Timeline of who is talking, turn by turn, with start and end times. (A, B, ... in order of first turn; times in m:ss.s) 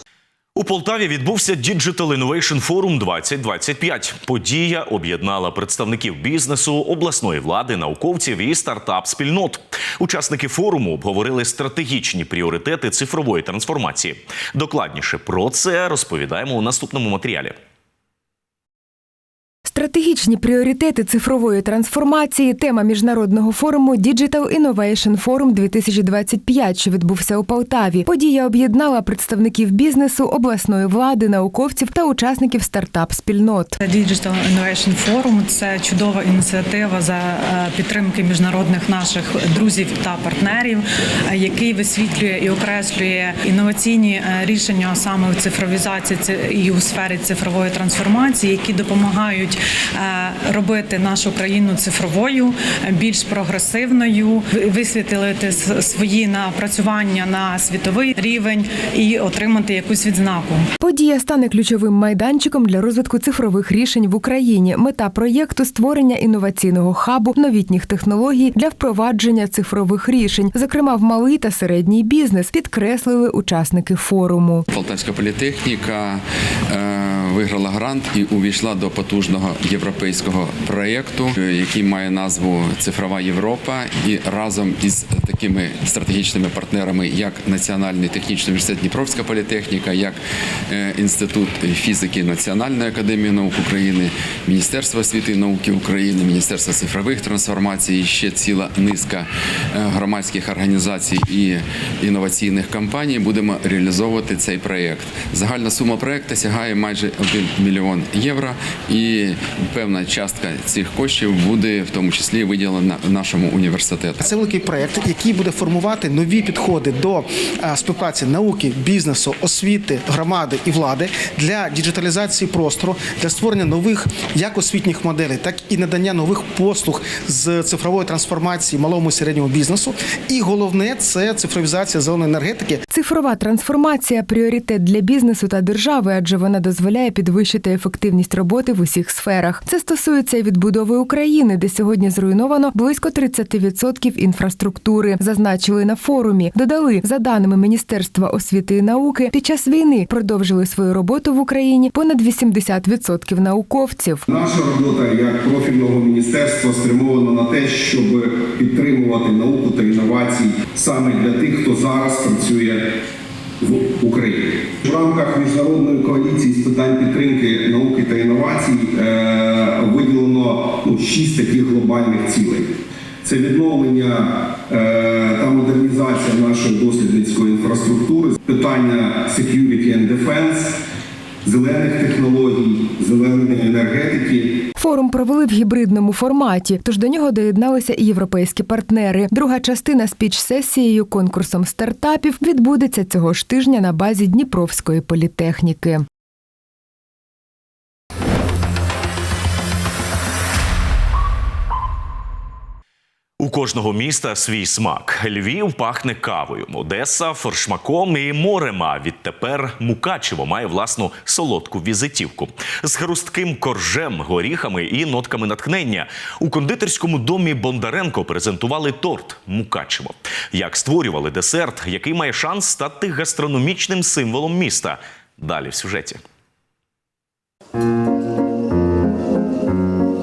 0:00.6-0:17.5 A
0:19.7-0:33.8 B
0:33.8-1:00.7 C
1:00.8-1:14.6 B
1:14.7-1:54.2 D
1:54.2-2:12.8 E
2:12.9-2:34.2 B
2:34.3-2:42.9 F
2:43.6-3:00.8 F
3:01.4-3:04.6 F
3:04.8-3:16.0 B
3:23.4-3:46.2 A